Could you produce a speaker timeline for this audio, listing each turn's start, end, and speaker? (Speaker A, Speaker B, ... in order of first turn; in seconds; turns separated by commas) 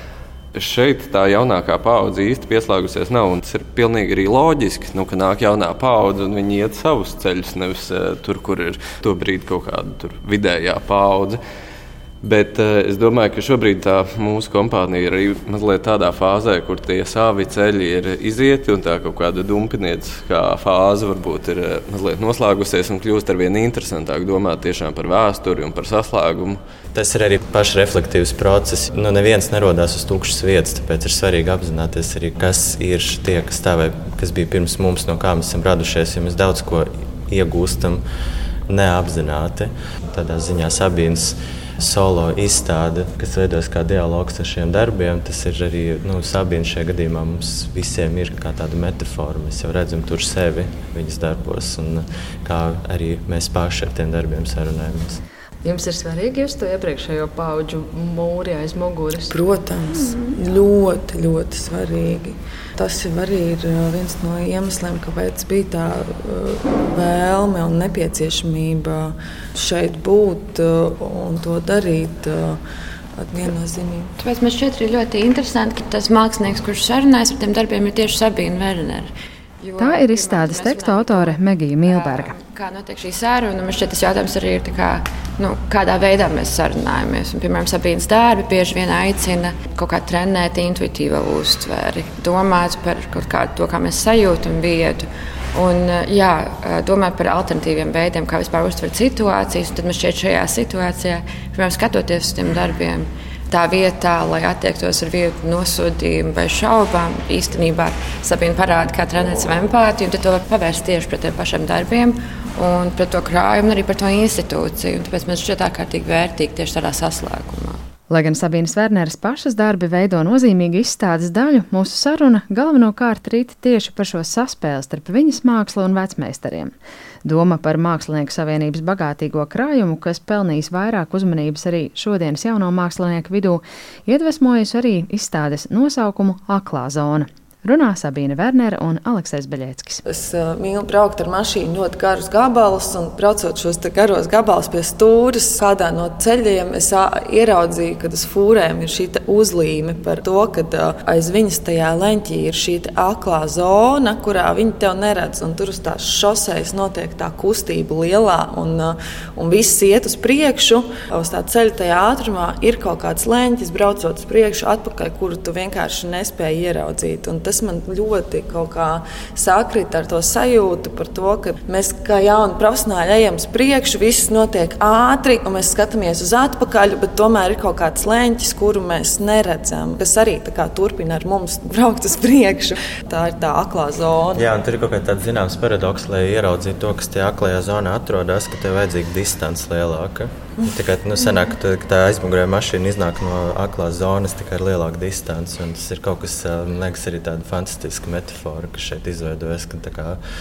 Speaker A: 0.5-11.4, Speaker A: 12.2-26.6, Speaker B: 26.9-38.0, Speaker B: 38.7-55.2, Speaker C: 55.6-59.3, Speaker D: 59.3-72.6, Speaker D: 73.2-74.1, Speaker E: 74.2-117.8, Speaker C: 79.8-82.3, Speaker C: 118.1-126.7, Speaker C: 127.2-140.0, Speaker D: 140.1-184.4, Speaker B: 184.3-200.2